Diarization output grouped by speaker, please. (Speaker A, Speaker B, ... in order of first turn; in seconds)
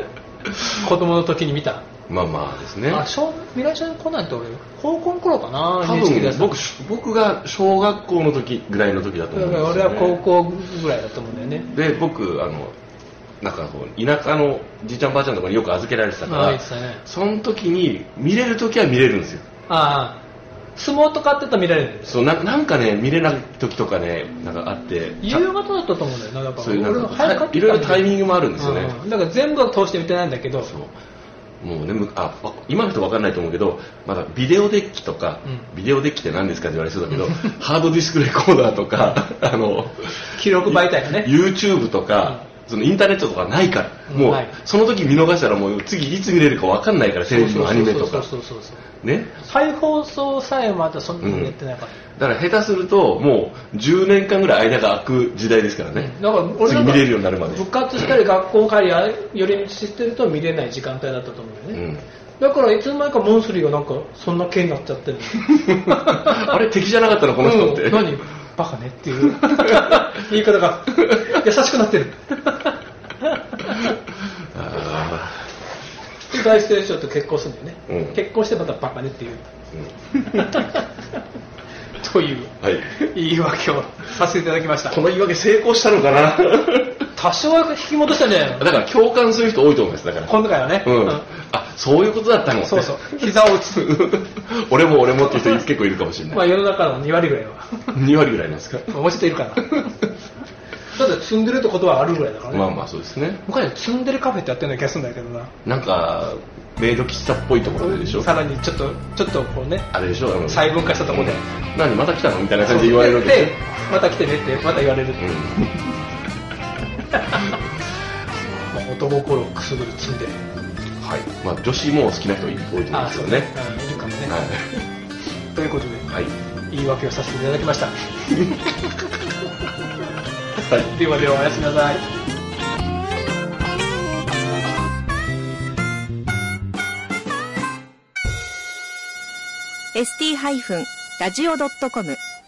Speaker A: 0.6-1.9, 2.9-6.6, 9.3-11.7, 16.2-17.0, 19.7-20.2, 20.7-22.2, 25.2-30.7, 40.4-41.3, 44.1-44.5, 47.3-48.8, 49.4-51.9, 55.9-61.8, 62.4-66.5, 67.4-73.9, 76.3-79.5, 80.3-80.8, 82.0-85.0, 87.1-88.7, 90.2-91.2, 92.6-94.1, 96.3-98.0, 98.9-99.9, 100.9-102.7, 103.4-105.5, 107.8-109.9, 110.5-111.4, 112.6-115.8, 117.1-117.6, 118.6-120.4, 122.9-124.5, 125.5-126.1, 126.7-128.5, 130.9-132.0
Speaker B: 2.1-3.0, 5.8-10.2, 11.7-12.7, 13.4-19.4, 22.0-25.4, 26.6-28.9, 30.6-30.9, 31.6-48.3, 49.0-49.4, 51.2-51.5, 52.2-58.1, 61.7-62.0, 65.5-68.2, 69.5-70.1, 74.5-75.5, 77.9-78.2, 79.7-80.5, 82.6-82.9, 84.9-87.0, 88.5-96.5, 97.9-99.0, 99.6-99.9, 102.5-103.4, 105.6-108.3, 109.9-113.6, 115.2-115.7, 121.0-123.5, 124.2-124.8, 130.6-130.9
Speaker C: 139.9-142.2